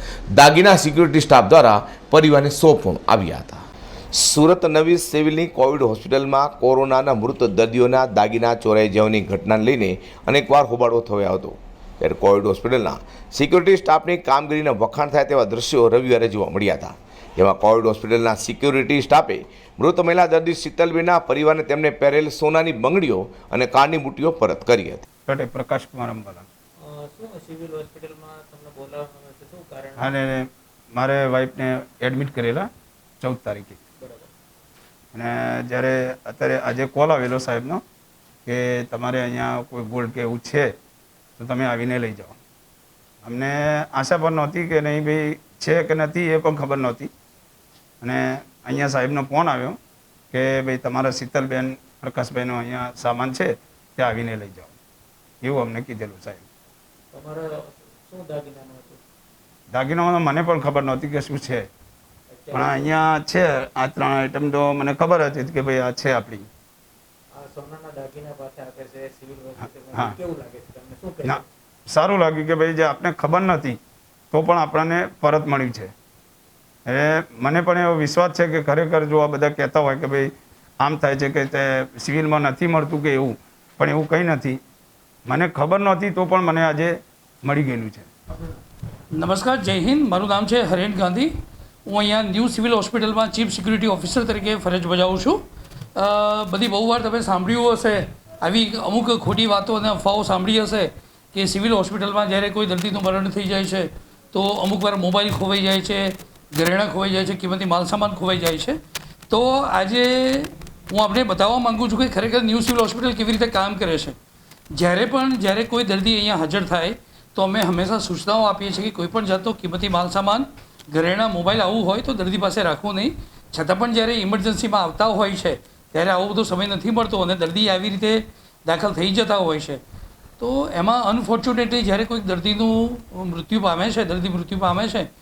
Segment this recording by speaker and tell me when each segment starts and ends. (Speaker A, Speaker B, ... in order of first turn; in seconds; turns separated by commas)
Speaker A: 0.3-3.6, Speaker A: 4.1-25.0, Speaker B: 25.3-26.4, Speaker C: 26.8-30.1, Speaker B: 30.0-32.7, Speaker B: 33.2-33.8, Speaker C: 34.0-34.3, Speaker B: 35.1-37.8, Speaker B: 38.5-40.7, Speaker B: 41.4-42.4, Speaker B: 43.2-47.1, Speaker B: 48.0-49.8, Speaker B: 50.3-54.7, Speaker B: 55.4-56.4, Speaker C: 57.1-59.0, Speaker B: 59.7-61.6, Speaker C: 62.3-62.9, Speaker B: 62.5-66.5, Speaker C: 67.3-71.4, Speaker B: 71.2-73.8, Speaker B: 74.3-75.9, Speaker B: 76.9-80.3, Speaker B: 80.8-84.6, Speaker B: 85.3-88.1, Speaker D: 89.1-91.3, Speaker D: 91.8-95.4, Speaker D: 95.9-108.8, Speaker D: 109.3-114.2, Speaker D: 114.7-129.8, Speaker D: 130.4-135.1